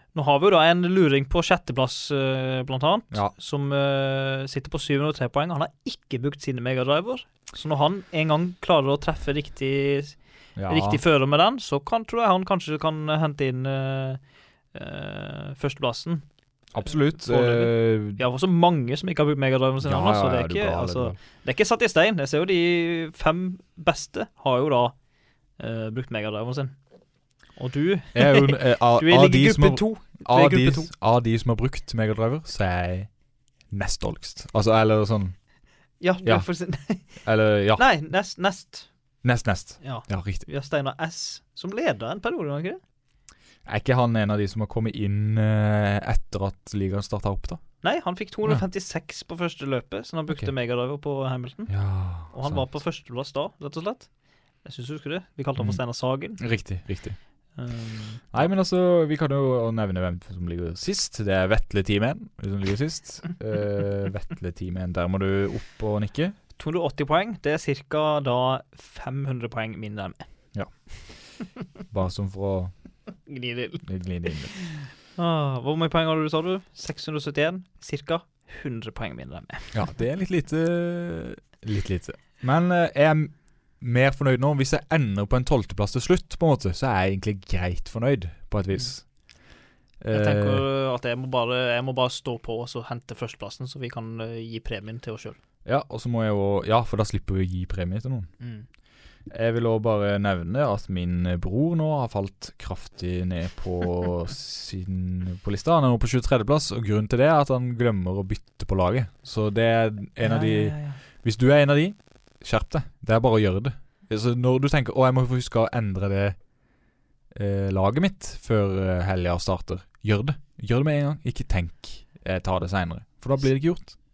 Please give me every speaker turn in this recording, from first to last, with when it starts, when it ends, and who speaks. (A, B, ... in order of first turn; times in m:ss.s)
0:00.1-0:14.2 A
0:10.6-0:11.0 B
0:14.7-0:16.3 A
0:16.7-0:18.2 B
0:16.8-0:25.0 A
0:19.8-0:21.2 B
0:25.6-0:26.8 A
0:27.6-0:30.9 A
0:28.1-0:33.1 B
0:33.7-0:35.4 B
0:36.0-0:37.1 A
0:37.2-0:37.8 B
0:37.8-0:38.9 A
0:39.2-0:40.5 B
0:39.8-0:42.8 A
0:43.7-0:47.6 B
0:47.8-0:54.1 A
0:51.7-0:52.7 B
0:54.6-0:56.4 A
0:56.4-0:57.2 B
0:57.6-0:58.2 A
0:58.3-1:06.4 B
1:06.6-1:10.3 A
1:11.9-1:12.7 B
1:13.3-1:13.8 A
1:13.8-1:14.6 B
1:15.2-1:19.7 A
1:19.7-1:29.1 B
1:30.0-1:30.6 B
1:30.1-1:35.4 A
1:35.6-1:38.3 B
1:38.4-1:38.7 A
1:39.3-1:56.4 B
1:50.2-1:51.0 A
1:57.3-2:04.0 B